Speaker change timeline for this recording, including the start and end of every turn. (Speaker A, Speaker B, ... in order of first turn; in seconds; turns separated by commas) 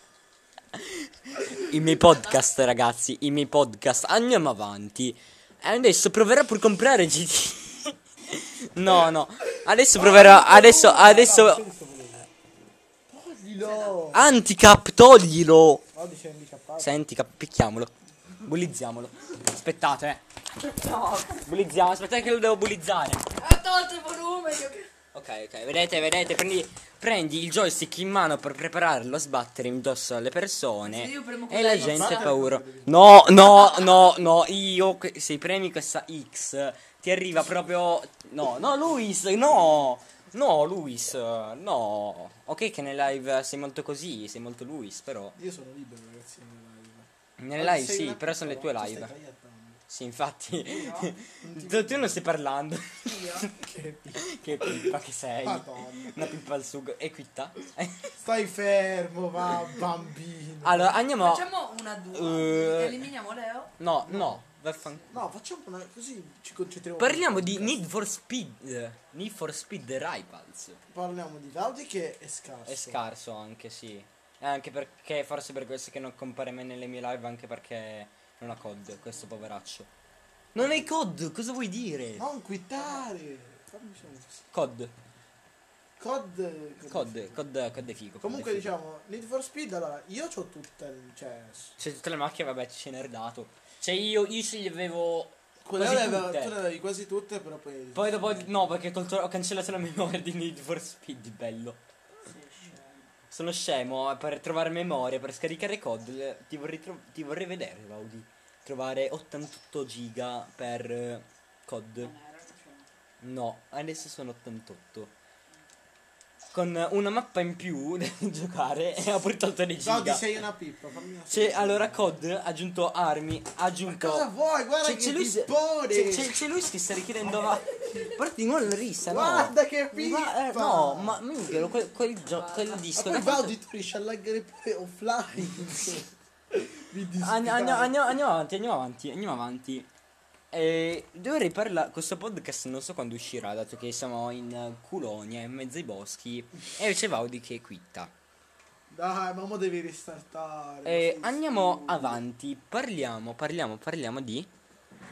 Speaker A: 0.7-11.6, Speaker B: 9.9-12.3, Speaker B: 13.1-14.3, Speaker A: 14.1-15.8, Speaker B: 15.9-17.0, Speaker A: 16.8-20.2, Speaker C: 20.6-21.4, Speaker A: 21.2-23.3, Speaker C: 23.3-24.9, Speaker A: 25.1-45.4, Speaker C: 30.9-32.3, Speaker B: 31.8-33.3, Speaker B: 45.4-49.8, Speaker A: 47.4-49.1, Speaker A: 49.9-53.5, Speaker C: 50.7-51.1, Speaker B: 51.4-52.2, Speaker C: 53.0-53.5, Speaker B: 53.5-56.2, Speaker A: 54.1-58.1, Speaker B: 58.2-61.0, Speaker A: 60.6-61.5, Speaker C: 61.2-63.7, Speaker A: 62.1-63.1, Speaker A: 63.8-65.2, Speaker B: 64.0-64.4, Speaker B: 65.1-67.8, Speaker A: 67.0-70.8, Speaker B: 70.9-73.0, Speaker A: 72.7-79.9, Speaker A: 80.5-82.2, Speaker B: 80.6-80.8, Speaker B: 82.2-84.4, Speaker A: 84.5-84.9, Speaker B: 86.0-87.4, Speaker A: 86.9-88.7, Speaker B: 88.2-91.8, Speaker A: 91.8-96.5, Speaker B: 95.6-98.5, Speaker A: 97.9-101.8, Speaker C: 102.2-103.1, Speaker A: 103.3-112.1, Speaker C: 112.0-112.9, Speaker A: 113.2-115.1, Speaker A: 116.5-120.4, Speaker B: 119.8-122.1, Speaker A: 121.3-124.3, Speaker B: 123.8-126.4, Speaker A: 124.8-133.6, Speaker B: 127.2-128.1, Speaker B: 129.0-131.3, Speaker C: 132.3-132.8, Speaker B: 132.9-138.1, Speaker A: 135.5-136.0, Speaker A: 137.2-139.9, Speaker A: 140.5-148.1, Speaker B: 148.9-152.2, Speaker A: 150.8-154.5